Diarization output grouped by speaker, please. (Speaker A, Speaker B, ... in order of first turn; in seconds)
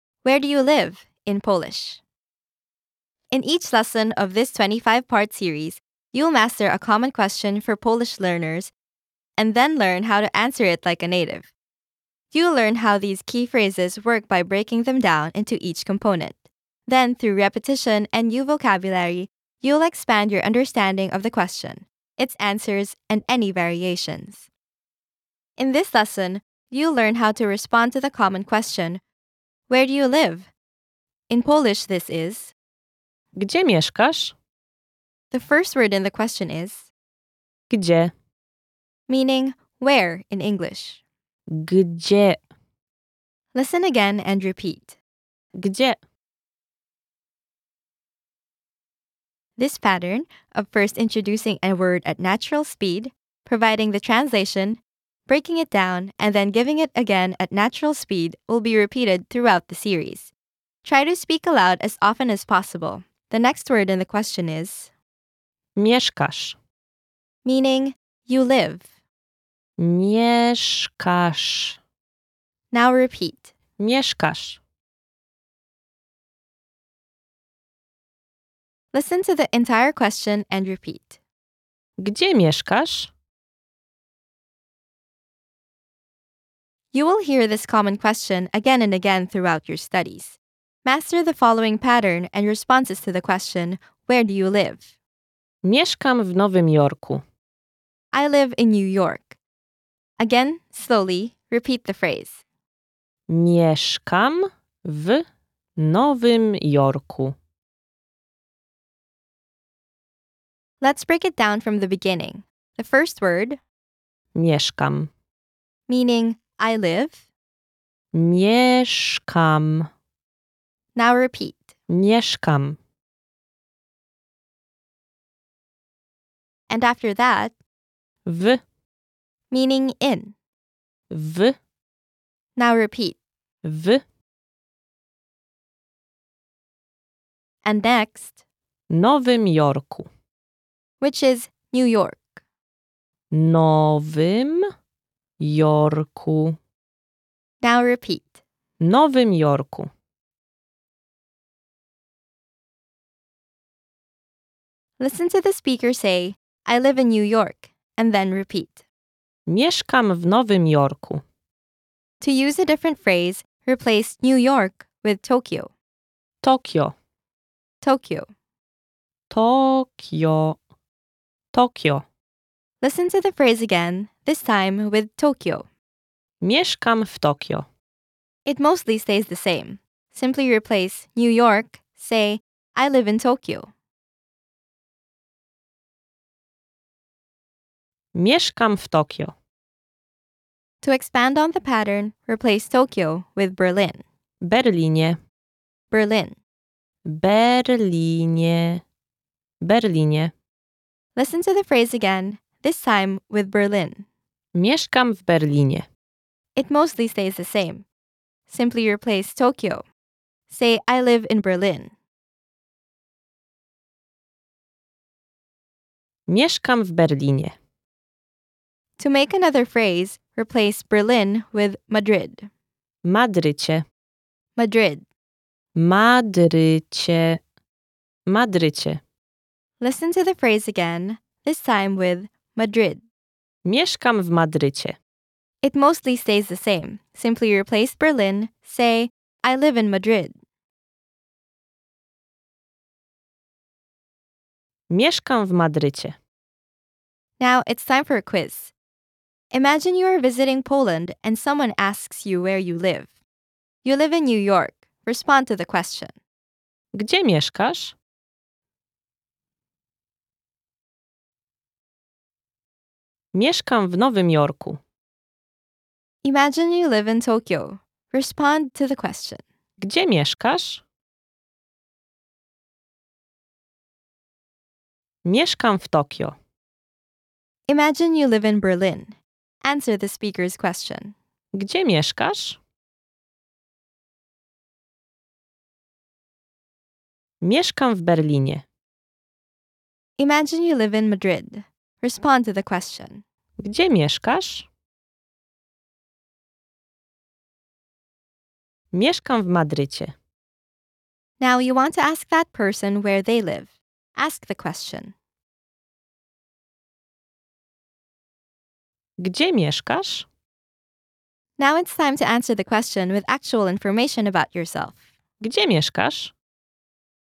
Speaker A: 0.2-2.0, 3.3-8.7, 9.4-11.5, 12.3-24.5, 25.6-29.0, 29.7-30.5, 31.3-32.5, 35.3-36.9, 39.1-41.0, 43.5-45.0, 49.6-60.3, 60.8-64.9, 67.4-68.8, 72.7-73.5, 78.9-81.2, 86.9-94.9, 98.1-99.4, 100.2-102.4, 110.8-113.6, 115.9-117.2, 120.9-121.7, 126.7-127.5, 129.5-130.3, 132.6-133.2, 137.6-138.4, 141.0-142.4, 147.6-148.3, 155.0-158.8, 162.2-165.7, 167.8-168.3, 172.8-175.7, 178.4-183.7, 190.8-194.0, 195.9-196.4, 201.1-204.0, 206.5-207.8, 208.5-209.8, 210.5-211.9, 219.0-222.5, 224.6-225.1, 229.8-233.0, 235.6-240.3, 247.4-248.7, 249.5-253.1, 253.8-256.1, 266.2-269.4, 277.7-281.1, 290.2-293.2, 301.4-305.1, 311.6-315.0
Speaker B: 33.4-34.3, 37.7-38.1, 41.6-42.4, 45.5-46.0, 65.8-66.6, 69.8-71.8, 73.8-74.6, 82.0-83.1, 95.6-97.2, 103.3-105.2, 105.8-107.3, 114.3-115.1, 118.1-119.9, 121.9-122.8, 128.2-128.6, 131.1-131.6, 133.6-134.0, 138.9-140.1, 143.3-144.6, 145.4-146.6, 148.8-149.9, 159.5-161.2, 166.4-166.9, 169.3-170.6, 171.5-172.0, 176.4-177.7, 188.1-189.3, 194.4-195.2, 197.1-198.8, 199.6-200.3, 204.5-205.8, 216.3-217.5, 223.0-223.8, 225.7-227.4, 228.3-229.0, 233.6-234.9, 244.9-246.2, 256.9-257.9, 263.3-264.8, 269.8-270.8, 275.2-276.4, 281.6-282.6, 287.4-288.6, 293.6-294.7, 298.9-300.1, 309.2-310.3, 315.4-316.3